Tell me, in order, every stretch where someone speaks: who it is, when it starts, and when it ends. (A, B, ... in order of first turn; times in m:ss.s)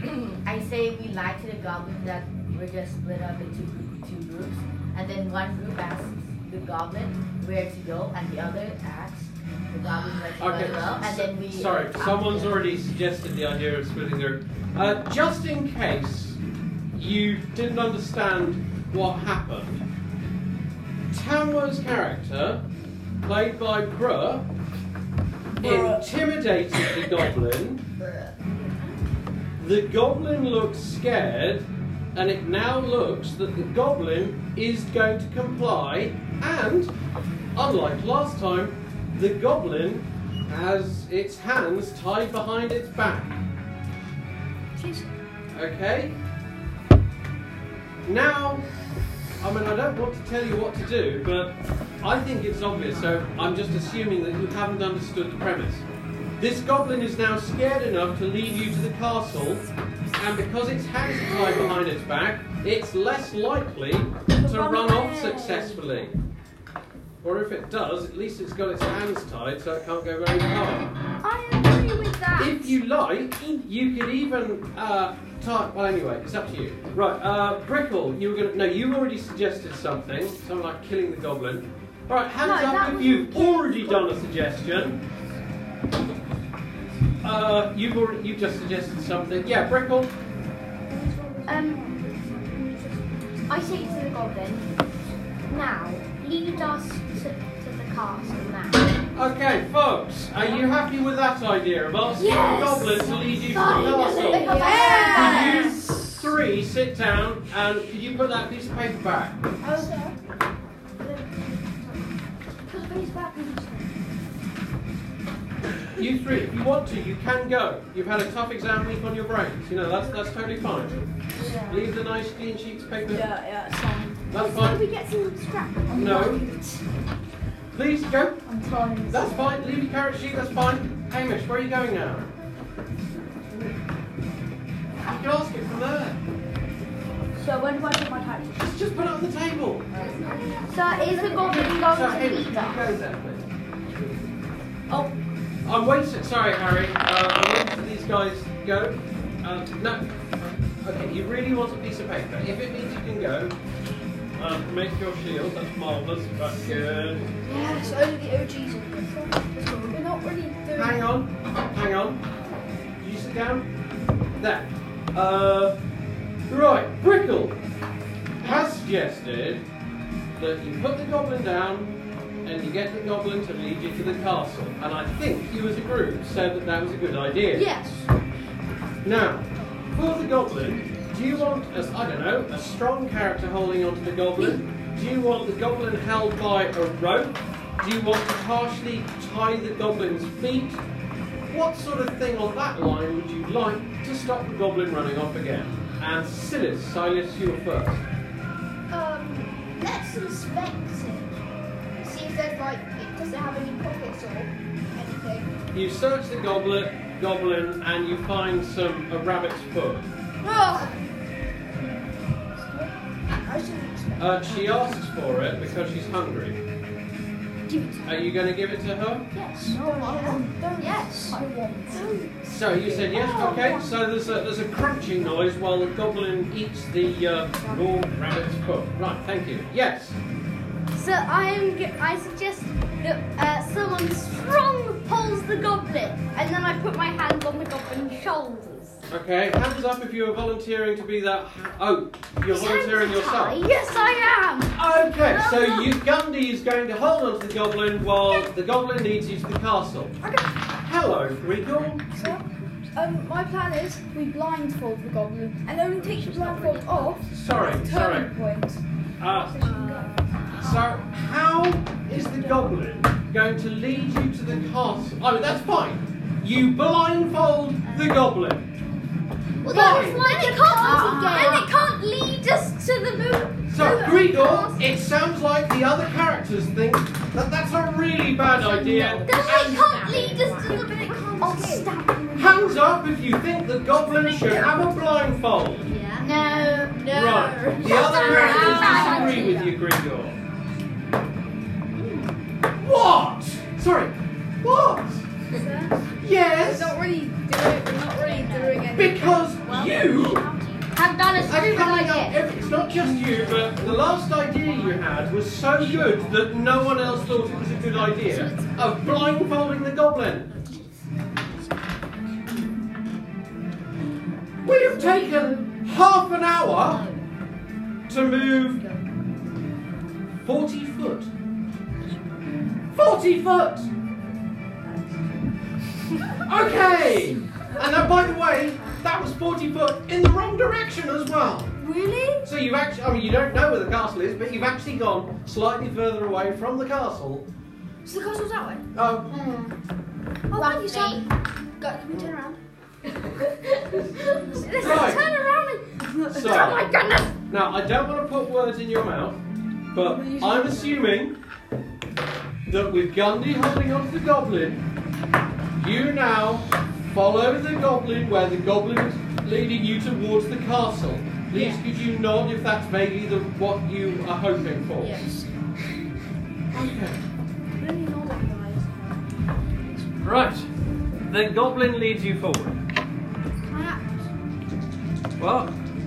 0:00.4-0:12.7 A
0:10.4-0:16.4 B
0:16.9-0:19.8 B
0:21.1-0:22.6 B
0:23.2-0:24.5 B
0:25.6-0:26.1 C
0:25.6-0:27.8 B
0:26.8-0:27.1 C
0:29.6-0:36.9 B
0:37.6-0:43.4 B
0:44.8-0:45.1 D
0:45.5-0:46.2 B
0:48.0-0:48.6 B
0:49.4-0:55.8 B
0:56.4-1:06.1 B
1:04.4-1:05.8 E
1:07.2-1:10.9 B
1:11.2-1:12.8 E
1:12.4-1:25.0 B
1:22.4-1:24.1 E
1:27.2-1:30.1 B
1:30.9-1:34.2 D
1:31.5-1:31.9 F
1:33.5-1:34.7 F
1:35.5-1:39.0 F
1:39.1-1:49.4 B
1:42.2-1:45.7 F
1:44.2-1:45.7 E
1:44.3-1:45.6 D
1:49.6-1:50.1 D
1:56.0-2:01.0 B
2:01.4-2:01.8 C
2:01.6-2:03.3 B
2:03.1-2:04.3 C
2:04.3-2:04.8 B
2:04.4-2:06.4 E
2:05.9-2:06.8 C
2:05.9-2:06.4 B
2:07.7-2:08.4 B
2:08.5-2:09.2 C
2:09.1-2:12.3 B
2:15.0-2:16.2 B
2:17.3-2:18.7 C
2:18.5-2:19.9 B
2:20.0-2:20.5 D
2:20.7-2:22.6 E
2:20.7-2:22.9 F
2:21.9-2:23.5 B
2:24.9-2:25.1 C
2:25.6-2:30.1 B
2:30.8-2:33.6 B
2:34.4-2:37.3 B
2:37.4-2:41.1 D
2:37.5-2:38.0 E
2:39.6-2:40.0 E
2:40.7-2:42.2 B
2:43.0-2:43.7 B
2:44.4-2:45.8 B
2:46.5-2:47.6 B
2:48.4-2:49.6 B
2:50.4-2:58.1 B
2:57.6-2:57.9 E
2:59.0-3:10.8 B
3:11.5-3:18.0 B
3:18.9-3:21.4 D
3:22.0-3:25.5 D
3:25.7-3:30.1 B
3:30.4-3:31.0 D
3:31.8-3:32.9 D
3:33.4-3:35.0 D
3:34.2-3:36.6 B
3:37.7-3:38.2 E
3:38.0-3:39.3 B
3:39.3-3:42.3 E
3:39.6-3:42.2 D
3:39.6-3:41.4 C
3:42.4-3:50.2 B
3:42.9-3:43.9 E
3:43.2-3:43.5 D
3:50.9-3:59.0 E
3:59.1-4:03.6 B
4:02.5-4:03.9 F
4:03.3-4:05.9 E
4:04.7-4:12.1 B
4:12.1-4:20.2 D
4:16.0-4:17.2 F
4:17.3-4:18.3 B
4:19.2-4:19.6 B
4:19.6-4:20.2 E
4:20.5-4:21.0 F
4:20.5-4:28.6 B
4:29.6-4:31.7 F
4:29.6-4:34.8 E
4:29.7-4:30.3 B
4:30.5-4:31.6 D
4:30.8-4:31.4 A
4:33.7-4:39.5 B
4:38.8-4:40.8 A
4:39.0-4:41.9 F
4:39.2-4:42.8 E
4:42.4-4:45.9 B
4:45.9-4:49.7 E
4:46.2-4:47.1 F
4:47.0-4:50.4 B
4:47.6-4:49.4 D
4:47.8-4:49.7 F
4:52.8-4:55.2 B
4:55.5-4:59.5 D
4:56.2-4:57.0 B
4:58.2-4:58.9 F
4:58.3-4:58.8 E
4:59.0-5:00.5 B
4:59.6-5:03.7 F
5:00.9-5:02.4 E
5:01.5-5:10.5 B
5:07.2-5:08.8 F
5:08.0-5:08.9 E
5:14.6-5:17.0 B
5:14.7-5:15.7 E
5:16.7-5:17.2 E
5:18.1-5:18.8 B
5:18.5-5:19.0 E
5:20.4-5:21.3 B
5:23.0-5:23.9 B
5:26.4-5:31.7 B
5:31.8-5:32.5 E
5:32.4-5:37.5 B
5:38.0-5:38.8 D
5:38.9-5:39.3 B
5:39.3-5:39.8 F
5:40.5-5:41.3 D
5:40.5-5:41.2 F
5:40.9-5:41.2 E
5:41.8-5:42.6 D
5:44.0-5:47.4 E
5:44.6-5:45.1 D
5:44.8-5:45.3 B
5:46.3-5:46.9 B
5:47.5-5:49.4 B
5:49.9-5:51.4 B
5:50.0-5:51.0 D
5:52.6-5:54.8 B
5:55.8-6:05.3 B
6:05.0-6:05.3 E
6:06.7-6:07.2 B
6:07.8-6:09.2 D
6:10.2-6:10.7 B
6:11.3-6:12.8 B
6:13.7-6:14.2 D
6:15.4-6:15.8 B